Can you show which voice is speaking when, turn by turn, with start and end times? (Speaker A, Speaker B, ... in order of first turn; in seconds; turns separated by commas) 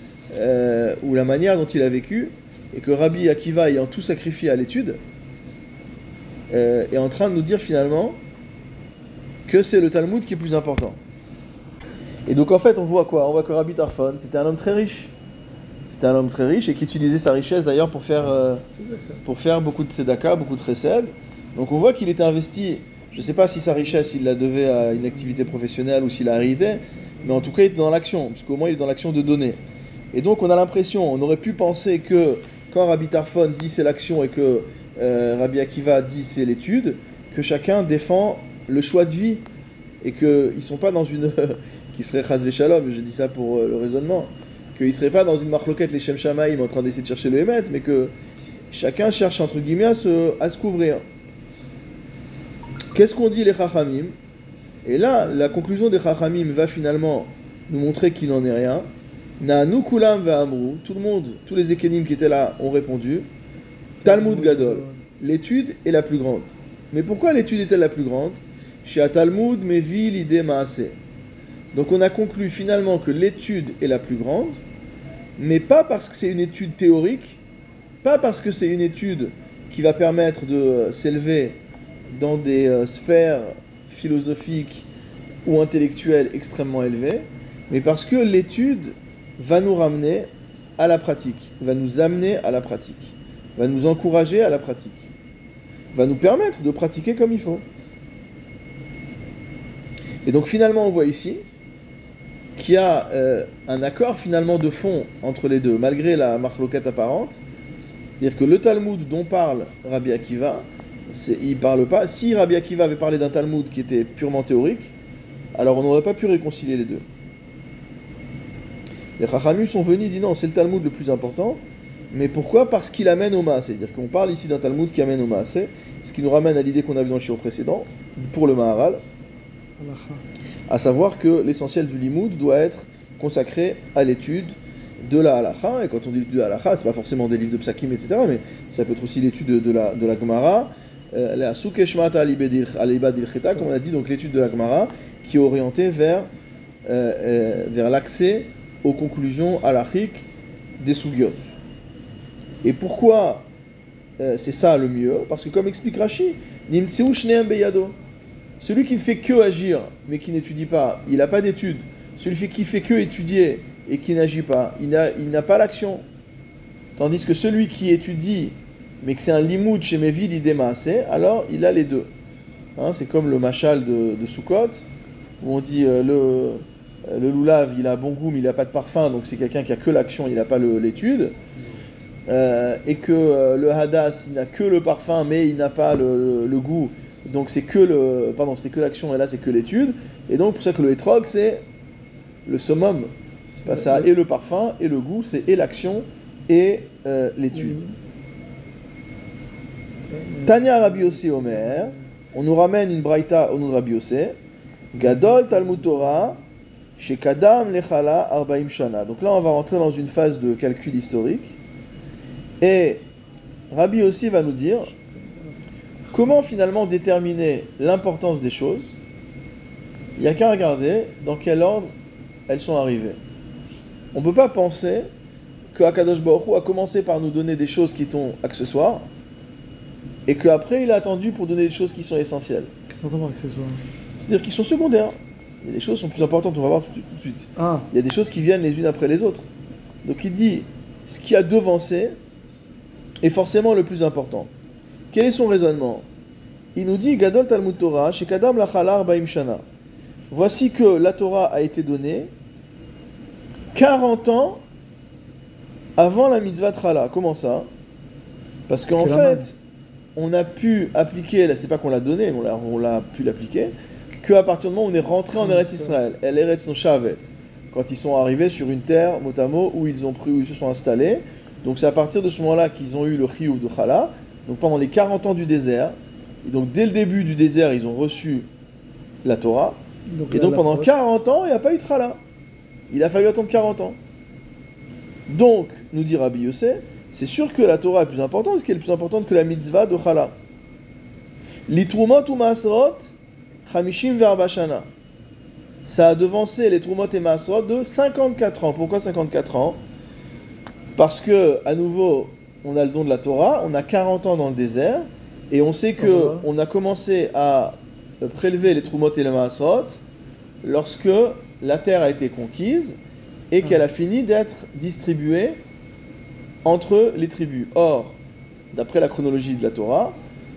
Speaker A: 0.3-5.0, Speaker A: 6.5-8.2, Speaker A: 9.5-11.0, Speaker A: 12.3-15.1, Speaker A: 15.9-18.7, Speaker B: 18.8-19.2, Speaker A: 19.2-29.6, Speaker A: 30.1-39.5, Speaker A: 40.0-48.1, Speaker A: 48.7-51.0, Speaker A: 52.9-54.1, Speaker A: 54.9-58.9, Speaker A: 59.4-63.3, Speaker B: 64.0-65.0, Speaker A: 64.0-71.0, Speaker A: 71.7-74.6, Speaker A: 75.4-77.4, Speaker A: 78.0-81.6, Speaker A: 82.1-84.9, Speaker A: 85.5-95.1, Speaker A: 95.9-97.6, Speaker A: 100.2-101.4, Speaker A: 102.6-107.4, Speaker A: 108.2-114.9, Speaker A: 115.5-117.1, Speaker A: 119.2-129.0, Speaker B: 129.8-130.2, Speaker A: 130.7-146.3, Speaker A: 146.9-150.3, Speaker A: 150.8-151.6, Speaker A: 152.6-153.5, Speaker A: 154.2-158.0, Speaker A: 158.6-166.1, Speaker A: 167.0-172.1, Speaker A: 172.8-174.9, Speaker A: 175.4-181.3, Speaker A: 182.3-191.6, Speaker A: 192.5-197.8, Speaker B: 193.7-194.1, Speaker B: 197.5-198.0, Speaker B: 200.1-202.0, Speaker A: 200.4-204.4, Speaker A: 204.9-206.4, Speaker B: 205.0-206.4, Speaker A: 207.0-211.6, Speaker A: 212.6-213.1, Speaker A: 213.7-215.0, Speaker B: 215.0-215.6, Speaker A: 216.1-219.0, Speaker A: 220.2-221.9, Speaker A: 222.5-223.2, Speaker A: 224.1-225.1, Speaker A: 225.7-229.1, Speaker A: 230.3-232.7, Speaker B: 232.9-233.9, Speaker A: 234.2-239.5, Speaker B: 237.6-237.9, Speaker A: 240.0-242.2, Speaker A: 243.2-244.5, Speaker A: 245.1-246.1, Speaker A: 246.8-249.7, Speaker A: 250.3-252.3, Speaker A: 253.7-254.6, Speaker A: 256.0-257.7, Speaker A: 258.7-259.6, Speaker B: 259.0-259.5, Speaker A: 260.2-278.5, Speaker B: 265.4-266.0, Speaker A: 279.2-282.2, Speaker B: 280.1-280.9, Speaker A: 282.9-284.0, Speaker A: 285.3-290.4, Speaker A: 291.7-293.1, Speaker A: 293.6-294.9, Speaker A: 295.9-299.8, Speaker A: 301.0-310.0, Speaker B: 306.0-306.5, Speaker A: 310.6-313.0, Speaker A: 313.5-315.6, Speaker A: 316.6-318.2, Speaker A: 318.7-320.2